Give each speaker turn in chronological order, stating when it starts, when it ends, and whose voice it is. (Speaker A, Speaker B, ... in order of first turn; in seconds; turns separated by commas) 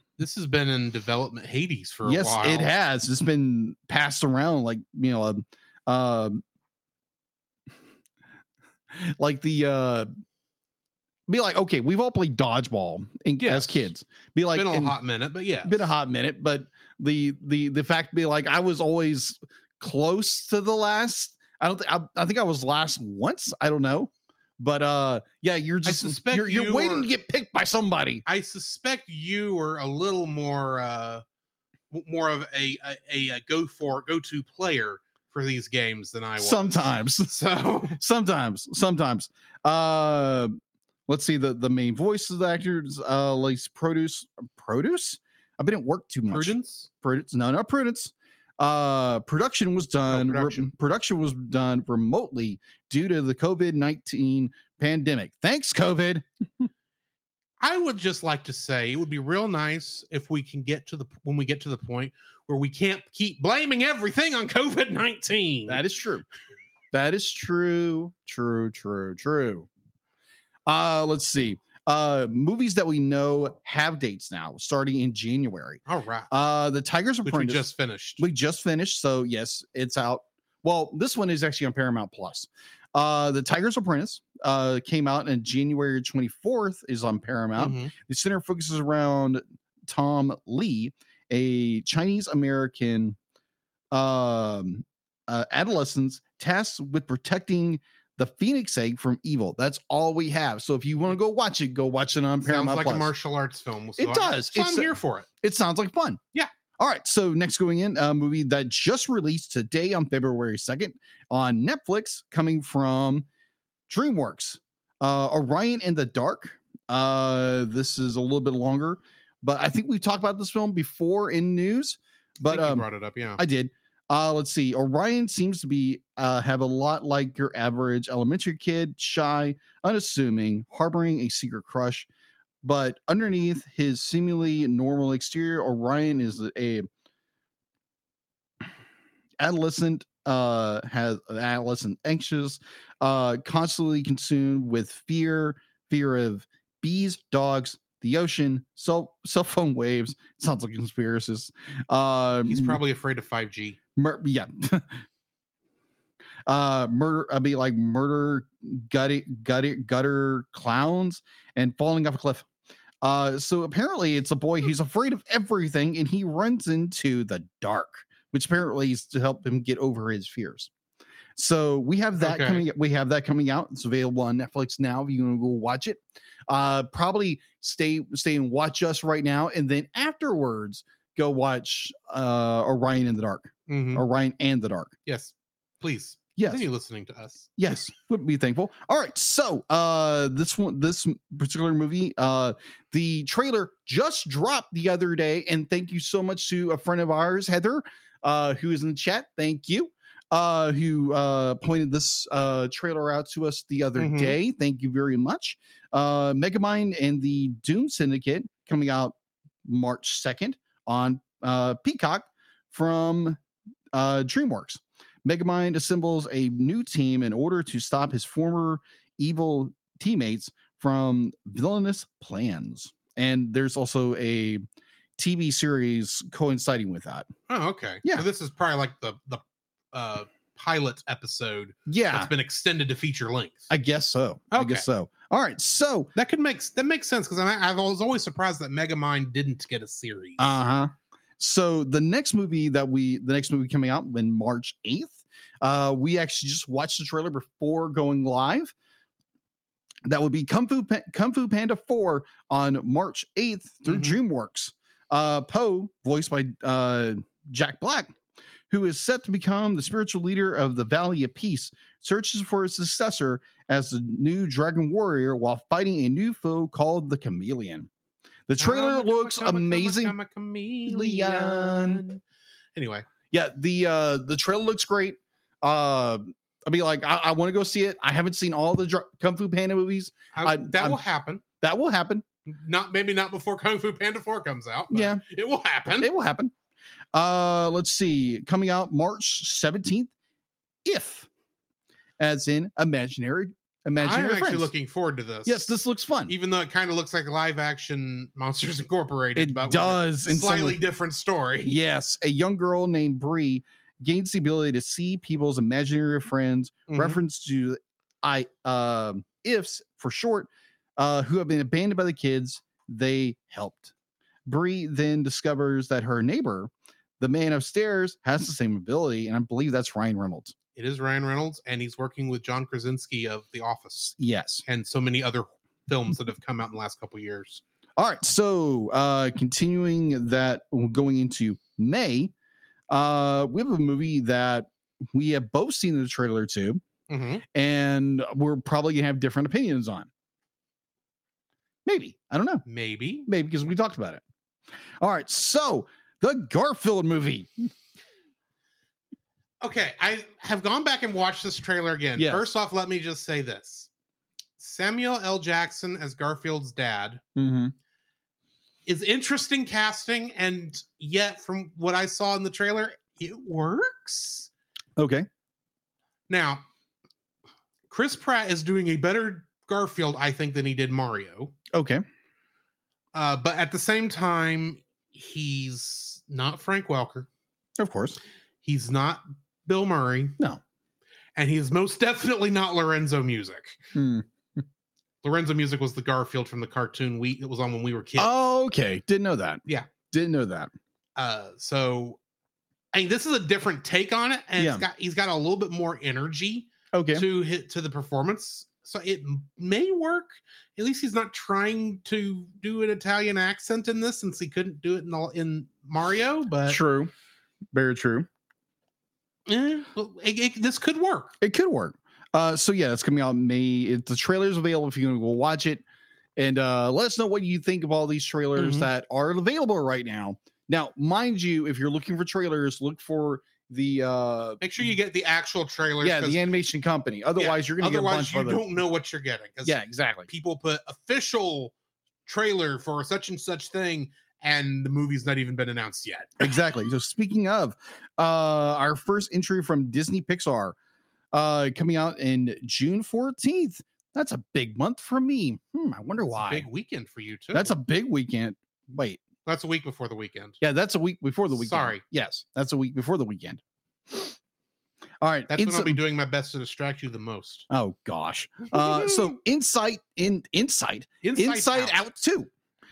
Speaker A: 0.2-2.7, Speaker B: 2.0-6.4, Speaker B: 8.9-10.1, Speaker B: 11.3-15.0, Speaker A: 13.4-13.9, Speaker A: 14.5-15.8, Speaker B: 15.6-28.2, Speaker A: 25.8-27.1, Speaker A: 28.2-31.2, Speaker A: 31.9-38.0, Speaker B: 36.4-37.3, Speaker B: 37.9-40.5, Speaker B: 41.1-56.7, Speaker A: 46.3-46.9, Speaker A: 50.1-50.7, Speaker A: 57.6-65.8, Speaker B: 65.7-66.2, Speaker B: 66.9-69.7, Speaker B: 70.7-93.2, Speaker A: 75.9-76.3, Speaker A: 77.2-78.2, Speaker A: 87.5-87.9, Speaker B: 93.9-103.1, Speaker A: 102.4-105.2, Speaker B: 104.0-106.2, Speaker B: 106.8-113.2, Speaker B: 113.9-132.1, Speaker A: 122.4-123.4, Speaker B: 132.6-136.9, Speaker B: 139.4-152.8, Speaker A: 152.4-153.8, Speaker B: 153.9-155.0, Speaker B: 156.5-162.4, Speaker B: 163.0-170.7, Speaker B: 171.4-184.9, Speaker A: 172.2-172.7, Speaker A: 183.7-184.0, Speaker A: 185.1-187.5, Speaker B: 186.4-186.7, Speaker B: 187.6-213.4, Speaker A: 203.9-204.4, Speaker B: 213.9-224.6, Speaker B: 225.2-227.3, Speaker A: 227.5-233.7, Speaker B: 231.9-232.3, Speaker B: 233.7-236.1, Speaker A: 234.5-234.8, Speaker A: 236.2-240.4, Speaker B: 240.4-248.7, Speaker B: 250.1-258.1, Speaker A: 253.8-254.2, Speaker B: 258.7-267.9, Speaker B: 268.5-270.1, Speaker A: 268.6-272.2, Speaker B: 270.9-272.0, Speaker A: 272.8-273.0, Speaker B: 273.3-281.0, Speaker A: 280.3-281.4, Speaker B: 281.6-282.2, Speaker A: 282.5-286.1, Speaker B: 284.9-285.2, Speaker B: 286.0-286.5, Speaker B: 287.1-290.1, Speaker B: 290.8-291.3, Speaker B: 292.2-294.7, Speaker A: 294.0-295.7, Speaker B: 295.4-296.3, Speaker A: 296.3-301.8, Speaker B: 299.4-300.8, Speaker B: 301.6-313.9, Speaker A: 306.9-307.2, Speaker B: 314.4-320.5, Speaker A: 320.7-327.6, Speaker B: 324.2-324.6, Speaker B: 328.0-332.3, Speaker B: 332.9-336.8, Speaker A: 337.1-337.4, Speaker B: 337.5-340.1, Speaker B: 341.8-342.6, Speaker A: 342.6-343.3, Speaker B: 343.2-344.2, Speaker B: 345.0-347.7, Speaker A: 349.6-353.9, Speaker B: 352.1-352.5, Speaker A: 354.6-357.2, Speaker B: 357.4-357.7, Speaker A: 358.9-364.5, Speaker B: 365.0-365.3, Speaker A: 366.3-366.6, Speaker A: 367.9-371.5, Speaker B: 371.7-372.0, Speaker A: 373.1-377.3, Speaker B: 377.8-378.2, Speaker A: 378.6-380.4, Speaker A: 381.4-383.8, Speaker B: 383.9-384.6, Speaker A: 385.2-388.3, Speaker B: 388.2-390.7, Speaker A: 391.2-392.2, Speaker A: 392.9-406.8, Speaker B: 394.6-394.8, Speaker B: 396.9-397.2, Speaker B: 406.7-407.1, Speaker B: 407.7-408.3, Speaker A: 409.5-411.3, Speaker B: 411.4-415.8, Speaker B: 416.4-424.6, Speaker A: 418.6-418.9, Speaker A: 424.6-426.4, Speaker B: 426.0-428.6, Speaker A: 427.4-431.7, Speaker B: 429.6-430.3, Speaker A: 432.2-436.5, Speaker B: 436.4-440.8, Speaker B: 441.3-446.6, Speaker A: 446.3-447.7, Speaker B: 447.5-449.2, Speaker A: 449.4-450.6, Speaker B: 450.6-454.4, Speaker A: 451.5-452.0, Speaker B: 455.2-456.0, Speaker A: 455.5-457.6, Speaker B: 457.7-462.5, Speaker A: 458.7-459.2, Speaker A: 461.2-462.0